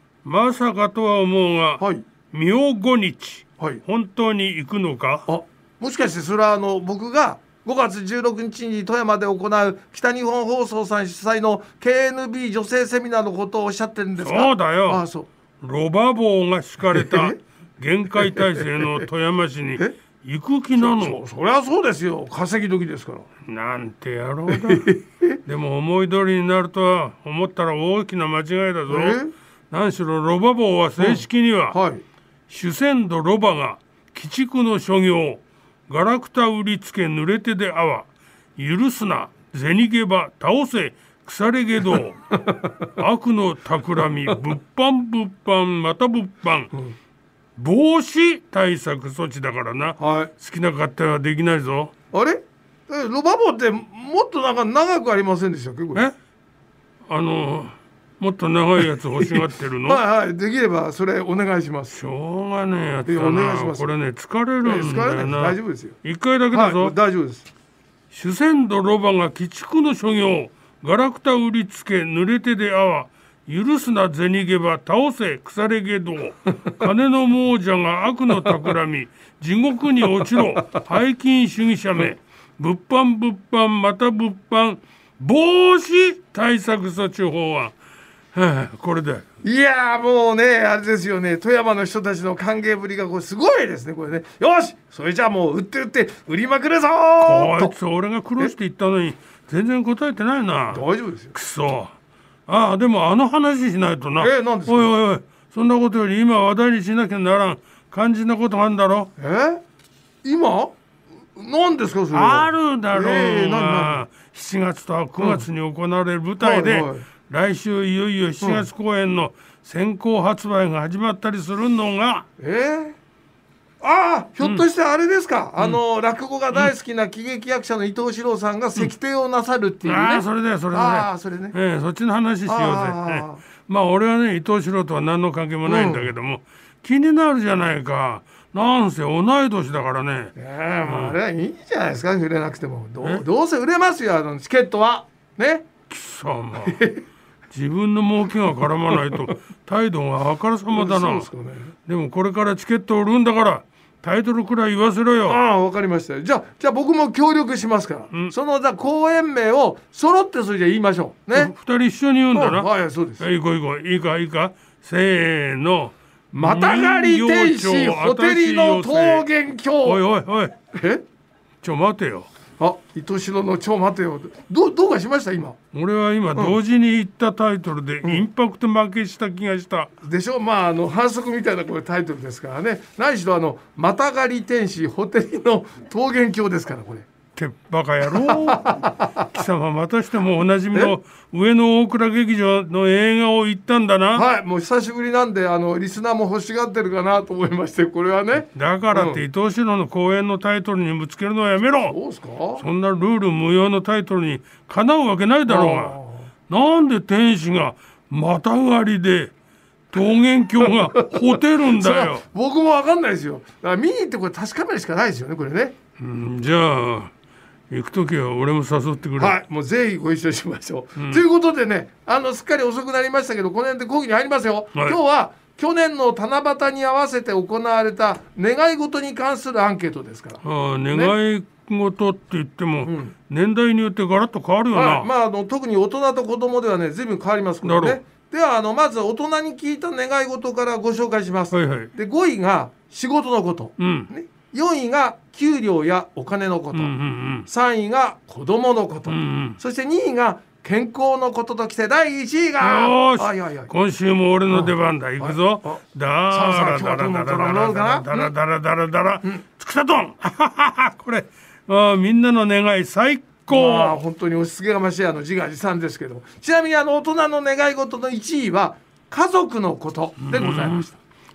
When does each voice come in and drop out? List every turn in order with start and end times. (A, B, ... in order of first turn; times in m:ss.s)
0:00.2-0:05.3 A
0:01.8-0:02.0 B
0:05.3-0:15.3 B
0:14.2-0:15.0 A
0:15.6-0:21.2 A
0:16.9-0:17.4 B
0:18.2-0:18.8 B
0:20.8-0:23.3 B
0:23.4-0:29.2 A
0:24.5-0:25.4 B
0:28.9-0:29.3 B
0:29.7-0:31.8 A
0:31.0-0:32.0 B
0:32.5-0:42.2 A
0:42.3-0:42.8 B
0:43.0-0:46.7 A
0:47.6-0:51.9 A
0:50.0-0:50.3 B
0:52.1-0:56.1 B
0:57.1-1:00.0 A
0:59.2-1:02.0 B
1:01.9-1:06.9 A
1:03.0-1:03.9 B
1:04.6-1:06.0 B
1:06.5-1:07.5 B
1:08.1-1:27.7 A
1:28.3-1:29.2 A
1:29.4-1:37.7 B
1:37.2-1:40.8 A
1:40.7-1:41.3 B
1:41.3-1:41.9 A
1:42.5-1:49.1 A
1:44.2-1:44.9 B
1:49.2-1:49.6 B
1:50.2-1:50.8 B
1:51.3-1:54.0 B
1:52.1-2:02.2 A
1:55.2-1:55.4 B
1:56.4-1:57.0 B
2:02.4-2:03.0 B
2:03.8-2:11.5 B
2:09.8-2:20.3 A
2:12.5-2:13.4 B
2:15.6-2:16.1 B
2:20.4-2:25.7 B
2:20.8-2:21.2 A
2:25.9-2:26.8 A
2:26.6-2:27.0 B
2:27.5-2:31.3 A
2:30.7-2:31.7 B
2:31.9-2:35.4 A
2:35.3-2:41.5 B
2:41.3-2:49.2 A
2:42.3-2:43.2 B
2:46.3-2:50.0 B
2:49.8-2:50.5 A
2:50.7-2:51.0 B
2:51.6-2:52.3 A
2:52.6-2:55.6 B
2:55.7-2:59.9 A
3:00.0-3:07.1 B
3:07.4-3:14.2 A
3:08.2-3:09.2 B
3:14.1-3:19.2 B
3:18.5-3:22.0 A
3:21.9-3:22.6 B
3:22.6-3:26.0 A
3:25.5-3:26.3 B
3:26.5-3:29.3 A
3:29.9-3:32.2 A
3:30.6-3:35.7 B
3:36.0-3:37.1 A
3:37.7-3:39.4 A
3:39.2-3:51.1 B
3:41.0-3:41.2 A
3:50.4-3:55.1 A
3:52.8-3:53.1 B
3:54.7-4:06.9 B
3:57.6-3:58.0 A
4:01.5-4:01.9 A
4:03.8-4:04.1 A
4:06.7-4:07.5 A
4:07.4-4:13.7 B
4:09.1-4:09.6 A
4:12.6-4:24.0 A
4:14.5-4:18.3 B
4:23.5-4:30.9 B
4:30.2-4:30.8 A